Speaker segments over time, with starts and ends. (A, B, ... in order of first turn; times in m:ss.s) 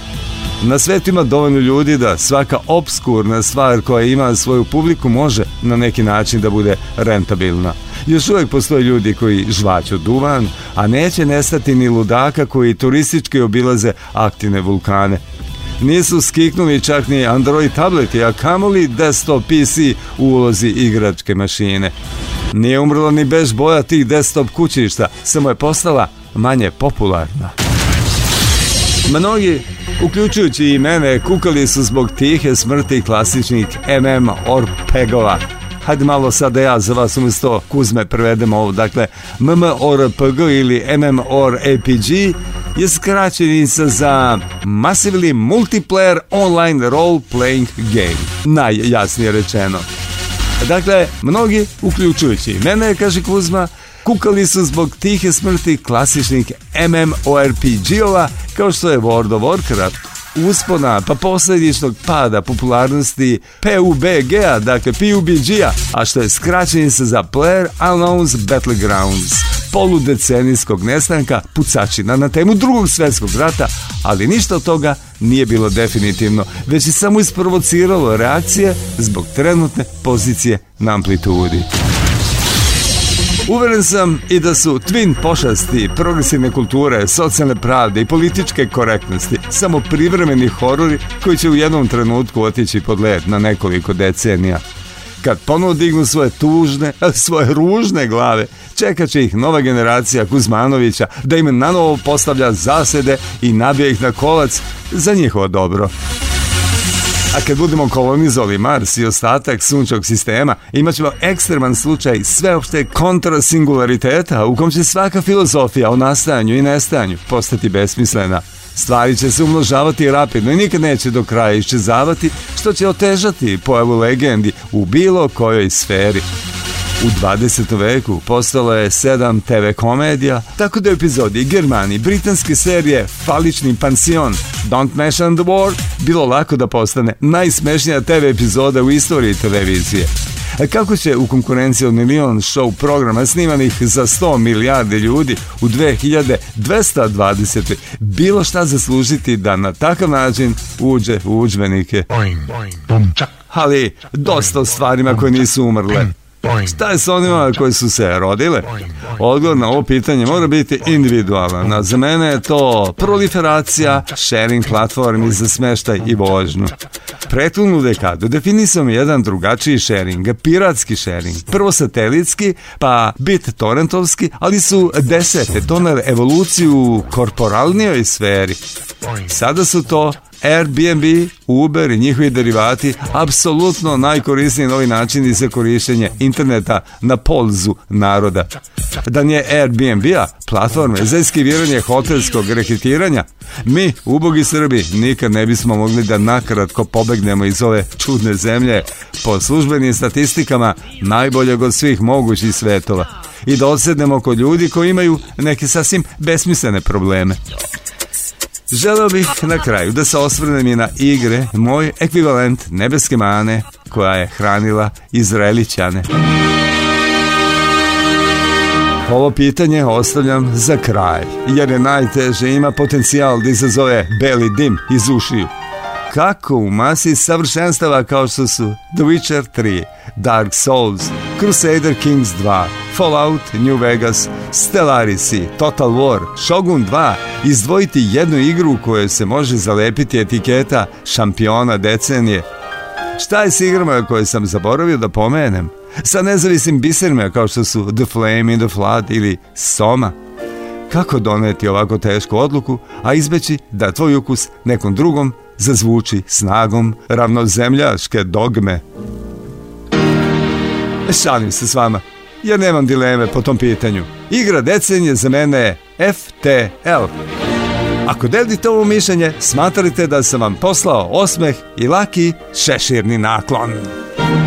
0:00.6-0:15.2 A
0:15.8-0:21.9 A
0:22.5-0:27.5 A
0:29.0-0:49.8 A
0:50.6-1:21.7 A
1:23.5-1:34.6 A
1:35.2-1:45.9 A
1:47.3-2:06.2 A
2:07.0-2:32.1 A
2:33.5-2:36.1 A
2:36.6-2:46.7 A
2:47.3-2:58.6 A
2:59.3-3:08.5 A
3:09.0-3:27.4 A
3:28.7-3:36.1 A
3:39.0-3:45.5 A
3:46.1-4:02.4 A
4:03.2-4:10.1 A
4:10.9-4:18.8 A
4:21.1-4:27.1 A
4:28.0-4:33.9 A